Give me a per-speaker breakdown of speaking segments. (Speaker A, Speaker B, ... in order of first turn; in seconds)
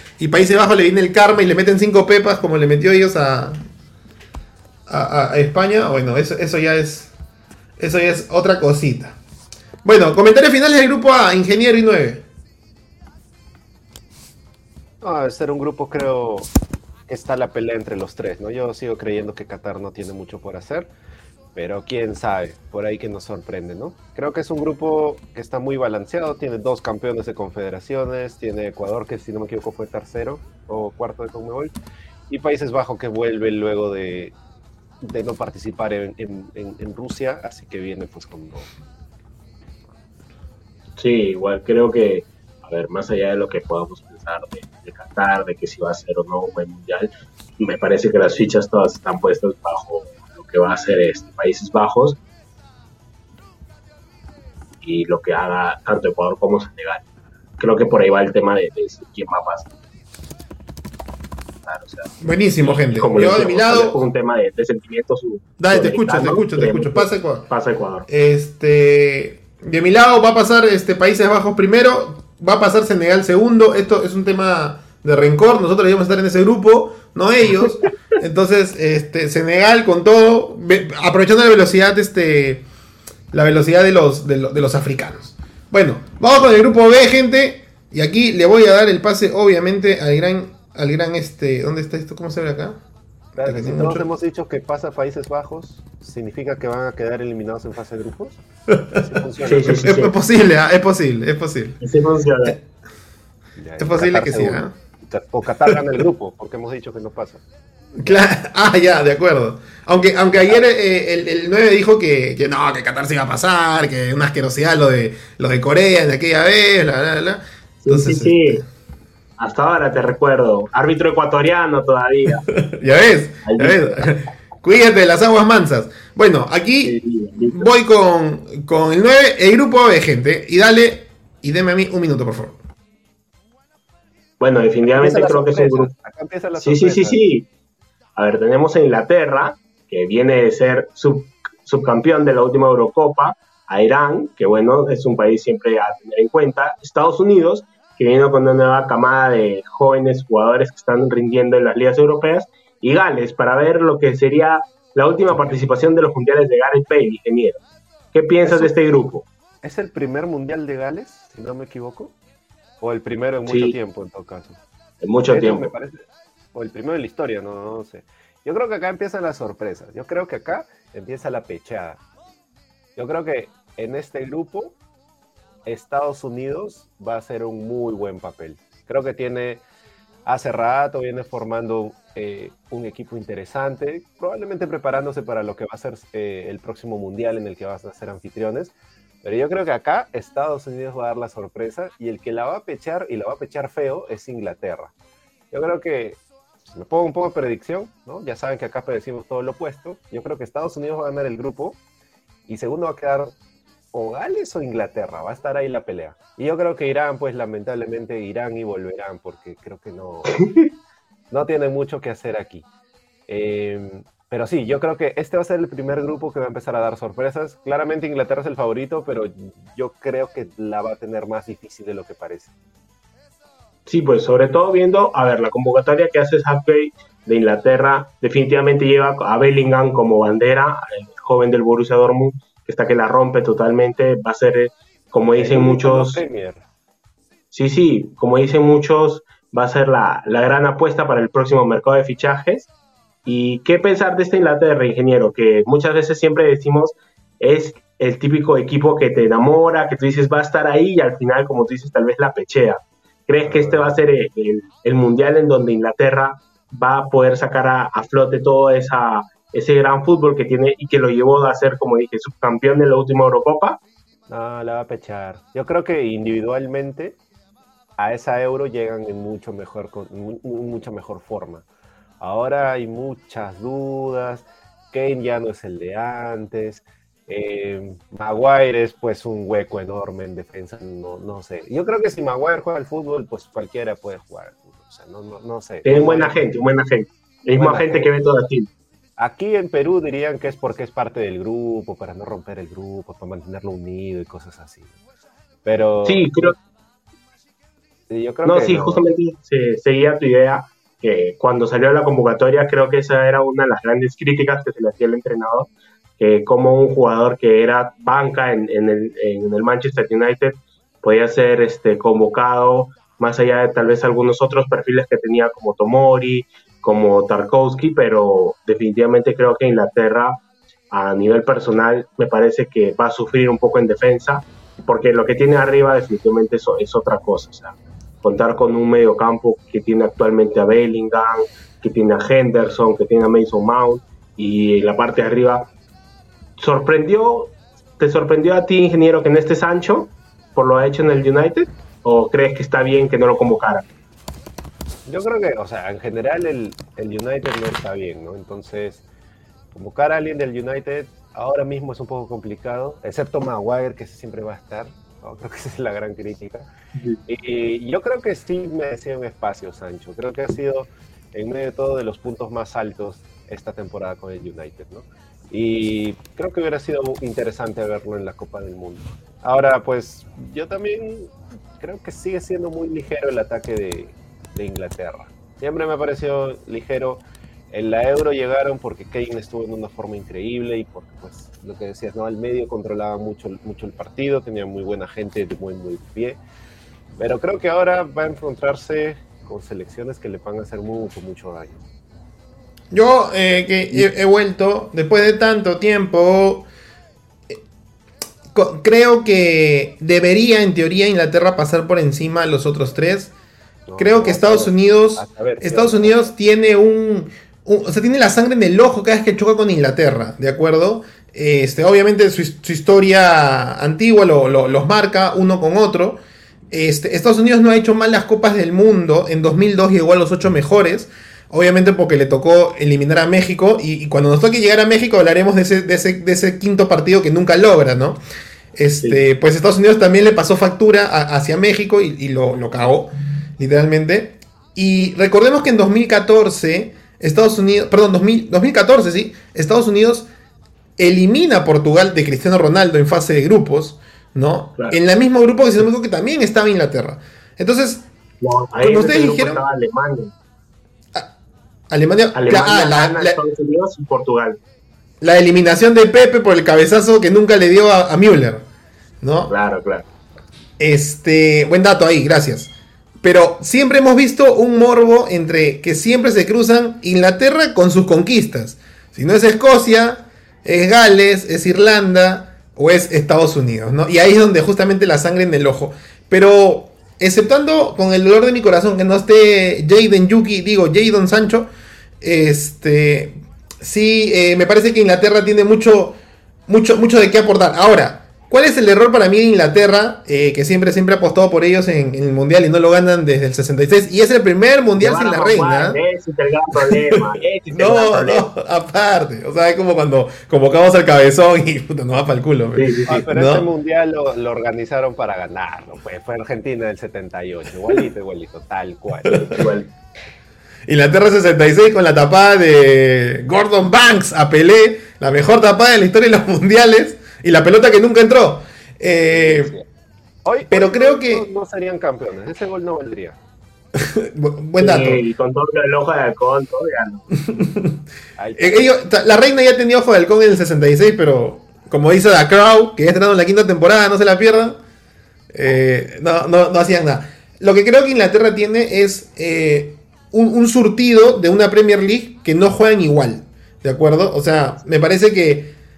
Speaker A: 0.2-3.6, 4.9-7.1, 7.8-9.2, 9.8-12.2, 62.2-64.0, 65.6-67.5, 68.1-82.6, 83.3-92.8, 93.4-94.0, 98.7-99.1, 99.6-101.8, 103.8-104.7, 108.0-118.6, 122.5-127.0, 127.5-132.6, 392.9-396.7, 398.5-403.3, 404.0-416.2, 416.7-428.2, 428.8-440.3, 441.0-448.0, 448.8-449.6, 451.9-453.4, 455.2-458.6, 459.2-459.5, 460.8-462.7, 463.2-481.7, 482.2-486.1, 486.7-496.0, 496.7-503.7, 509.2-509.6, 510.9-519.7, 520.7-521.4, 524.0-525.2, 527.5-528.0, 528.6-534.8, 535.5-545.7
Speaker B: 15.0-16.5, 17.1-20.9, 21.5-31.7, 32.3-34.3, 35.0-38.7, 93.4-99.9, 103.6-107.4, 135.0-137.2, 158.4-158.7, 159.6-162.1, 162.8-164.6, 165.3-166.0, 166.5-172.0, 172.9-174.8, 175.7-179.6, 180.2-194.9, 195.5-201.8, 202.5-203.3, 203.9-210.4, 211.3-212.7, 213.3-222.5, 235.3-236.6, 253.4-253.9, 264.3-267.2, 268.0-271.6, 272.2-286.4, 287.6-288.1, 289.2-294.9, 295.6-296.5, 298.1-299.1, 345.1-349.0, 349.7-356.7, 357.3-386.4, 387.2-391.8, 403.9-406.3, 503.1-509.6, 519.3-519.8, 520.4-523.4, 528.4-528.9
Speaker C: 41.0-52.2, 54.8-57.0, 57.6-59.7, 61.6-68.1, 99.5-100.1, 101.8-102.6, 117.8-118.6, 119.4-122.4, 123.4-124.0, 126.8-127.7, 134.4-135.9, 136.5-137.5, 138.2-157.6, 158.1-159.2, 163.4-163.7, 165.0-165.7, 223.9-236.2, 237.5-242.7, 243.2-263.8, 285.8-288.7, 296.0-296.6, 298.4-335.7, 336.6-343.9, 448.4-450.3, 452.3-454.6, 459.5-460.1, 495.0-498.5, 502.7-503.2, 509.6-509.9, 524.8-527.3